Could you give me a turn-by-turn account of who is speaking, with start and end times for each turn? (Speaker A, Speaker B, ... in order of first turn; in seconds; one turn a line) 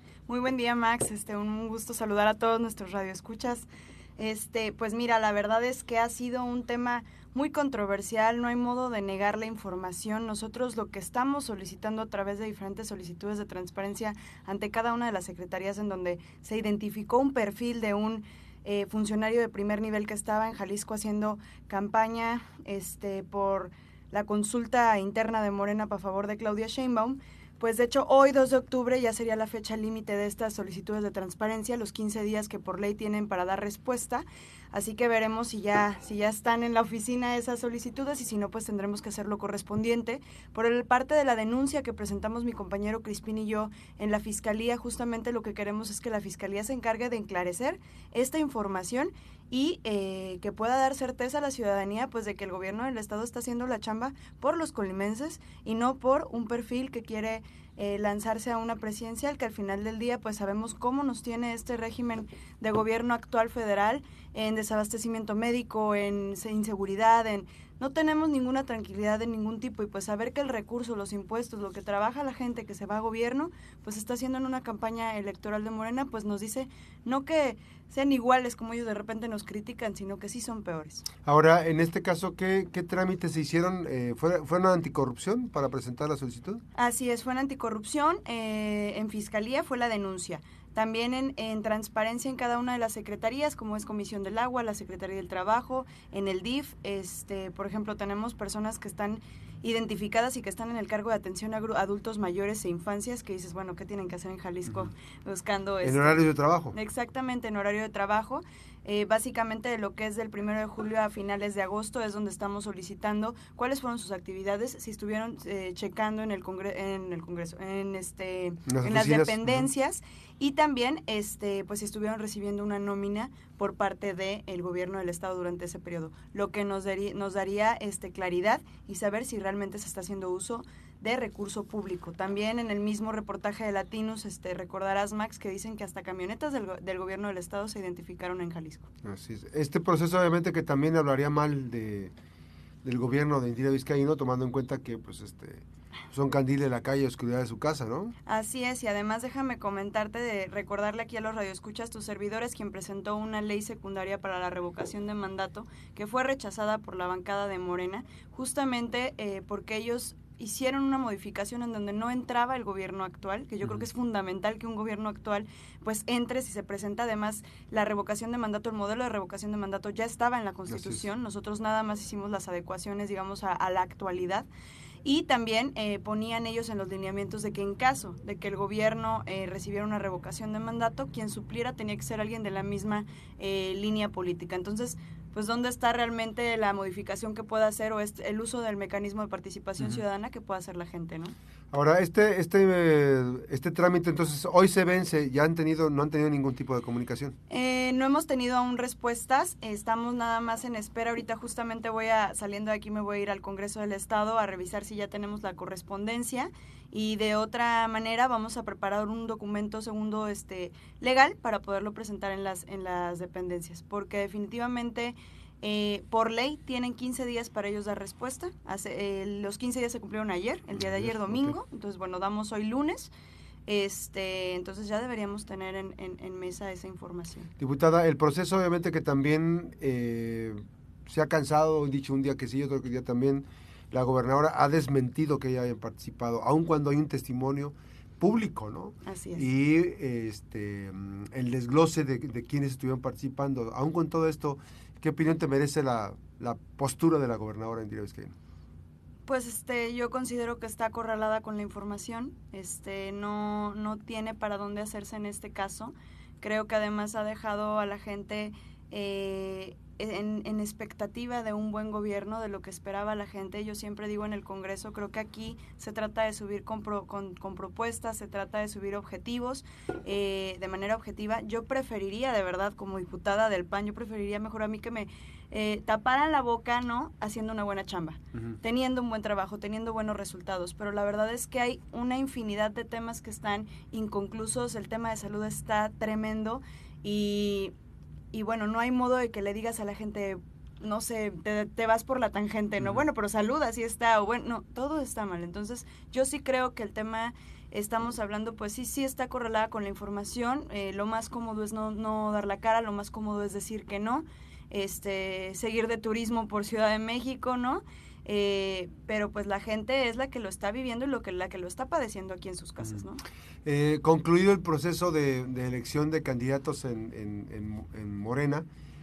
Speaker A: 0.3-3.7
Speaker A: 4.2-81.0
Speaker B: 81.2-86.6
Speaker A: 86.7-138.8
Speaker B: 105.8-106.8
Speaker B: 118.7-119.7
Speaker B: 139.0-142.1
Speaker B: 142.8-148.1
Speaker A: 148.2-174.5
Speaker B: 170.7-171.1
Speaker A: 175.0-191.3
Speaker B: 191.7-197.3
Speaker A: 197.5-223.1
Speaker B: 220.7-221.6
Speaker A: 223.7-227.5
Speaker B: 227.6-248.3
Speaker A: 239.1-239.5
Speaker A: 249.2-287.7
Speaker A: 288.3-313.2
Speaker B: 313.6-318.6